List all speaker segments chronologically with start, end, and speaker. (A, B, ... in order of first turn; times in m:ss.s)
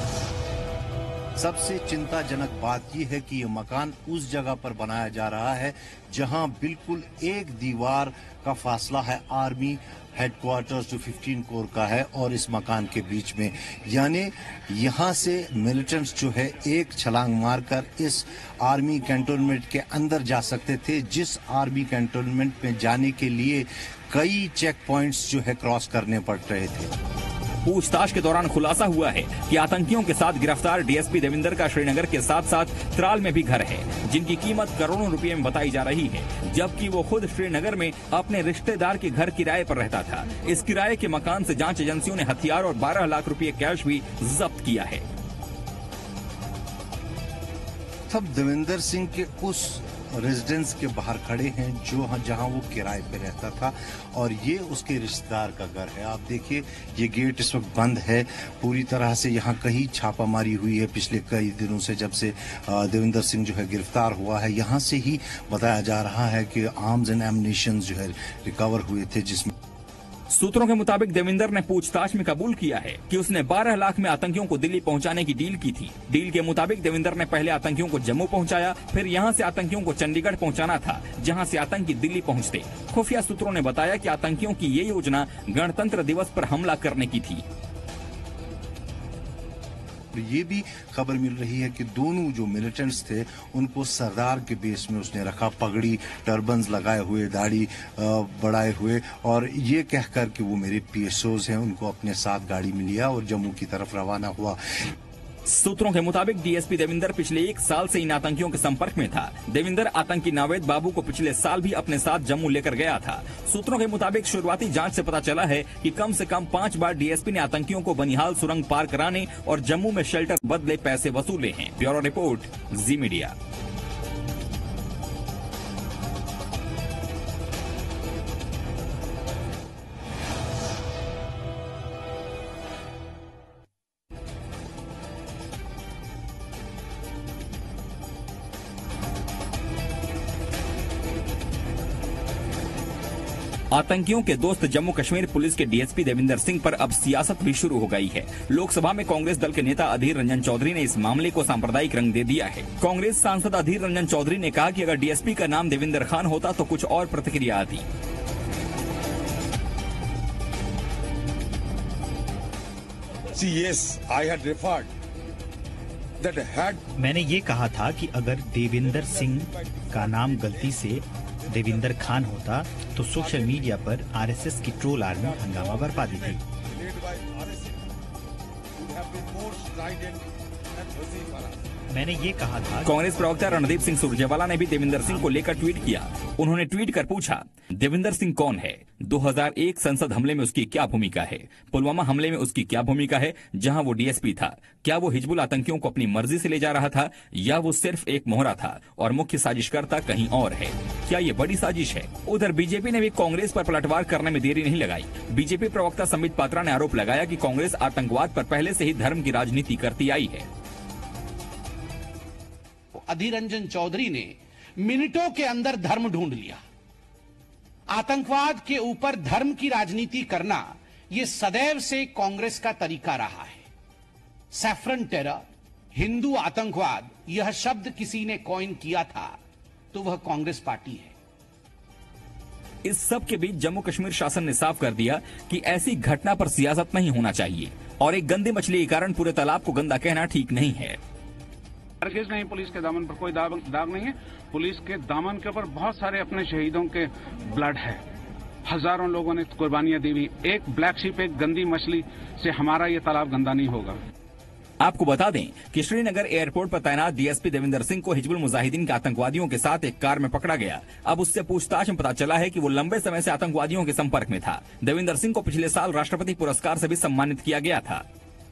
0:01.4-0:26.9 A
0:27.6-0:45.0 B
0:48.1-1:09.5 A
1:10.3-1:27.4 B
1:30.1-1:44.6 A
1:45.4-2:03.3 B
2:23.7-2:37.8 B
2:43.3-2:44.9 C
2:46.2-2:46.8 C
2:47.0-2:56.4 D
2:48.7-2:52.2 C
2:53.1-2:53.8 C
2:55.1-2:57.8 C
2:58.8-3:01.6 C
3:01.9-3:02.9 D
3:02.8-3:30.5 B
3:32.9-3:36.6 E
3:37.9-3:43.7 E
3:44.5-3:45.4 E
3:45.9-3:49.4 E
3:49.9-3:51.1 E
3:52.8-4:01.0 B
4:02.0-4:08.0 F
4:08.7-4:14.0 F
4:14.8-4:28.0 B